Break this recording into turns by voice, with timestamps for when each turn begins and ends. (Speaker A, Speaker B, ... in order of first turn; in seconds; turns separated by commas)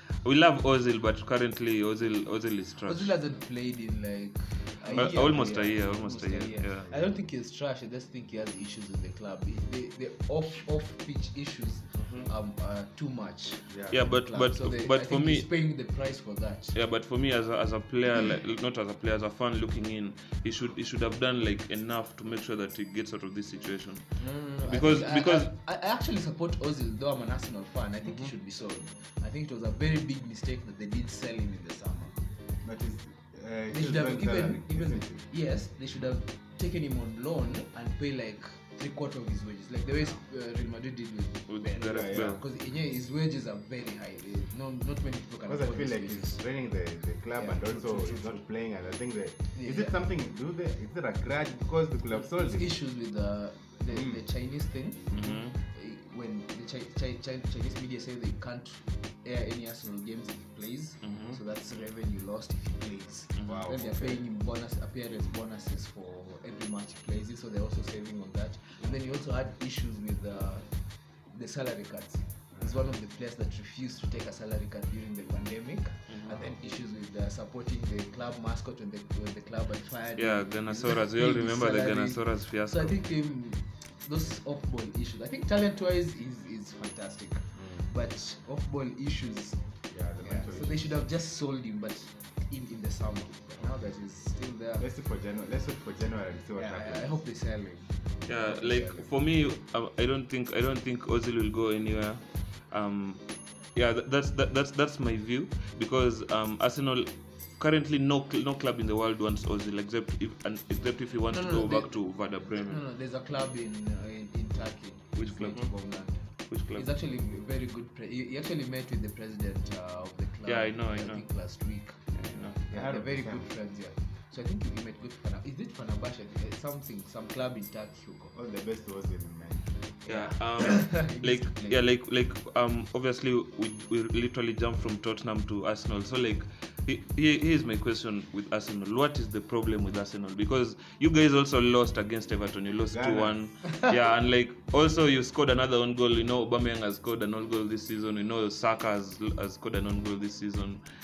Speaker A: 0.2-3.1, Speaker B: 2.9-16.8, Speaker C: 4.9-5.5, Speaker A: 4.9-6.9, Speaker C: 6.9-7.1, Speaker C: 11.9-12.3, Speaker C: 13.7-14.0, Speaker A: 13.9-15.5, Speaker A: 16.7-25.5, Speaker B: 24.2-32.1, Speaker C: 28.1-28.3, Speaker C: 32.6-35.2, Speaker B: 33.7-46.4, Speaker A: 41.5-42.4, Speaker C: 41.8-42.4, Speaker C: 45.5-52.7, Speaker B: 47.4-48.4, Speaker B: 49.5-50.0, Speaker B: 52.1-70.7, Speaker C: 53.9-54.2, Speaker A: 55.1-55.5, Speaker A: 61.0-61.3, Speaker C: 61.1-61.4, Speaker A: 63.4-63.6, Speaker C: 63.5-64.2, Speaker B: 71.3-89.6, Speaker A: 76.1-76.4, Speaker A: 80.2-83.0, Speaker C: 87.5-87.9, Speaker C: 89.9-91.0, Speaker B: 90.2-94.9, Speaker C: 94.8-97.2, Speaker B: 96.6-99.1, Speaker A: 98.3-112.8, Speaker B: 111.3-122.0, Speaker A: 115.2-115.7, Speaker A: 116.5-116.9, Speaker A: 120.5-121.3, Speaker A: 122.1-122.6, Speaker C: 122.7-123.5, Speaker B: 122.7-128.3, Speaker C: 128.3-129.7, Speaker B: 130.1-131.8, Speaker A: 130.1-150.8, Speaker C: 142.9-143.4